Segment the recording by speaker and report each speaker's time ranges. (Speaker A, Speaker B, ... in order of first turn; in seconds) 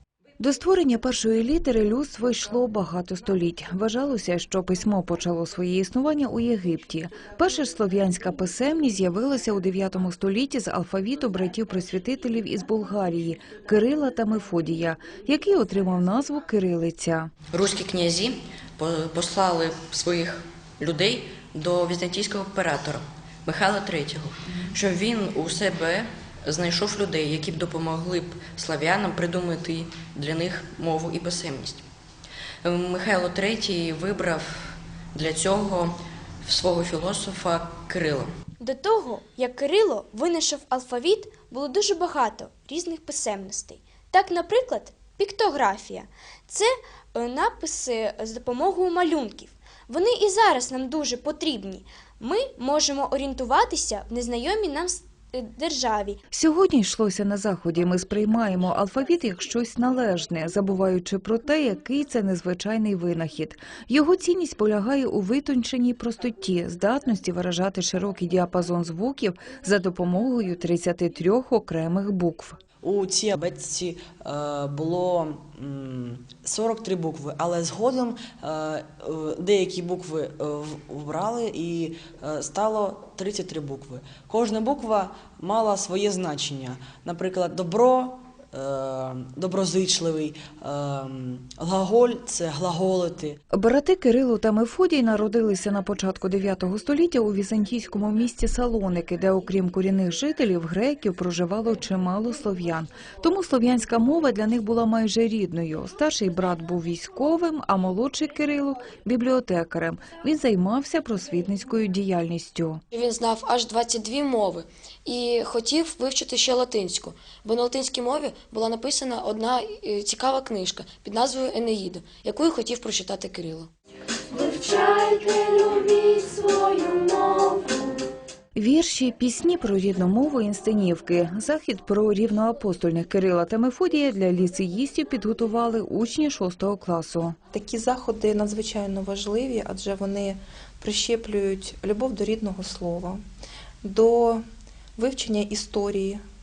Speaker A: 0.4-17.3, 56.3-72.6, 93.5-112.8, 128.5-137.4
Speaker B: 17.5-31.8, 32.6-38.3
Speaker C: 38.6-56.2
Speaker D: 72.8-93.3
Speaker E: 112.9-123.7, 124.3-127.9
Speaker F: 137.5-143.2, 143.8-144.4, 145.0-146.2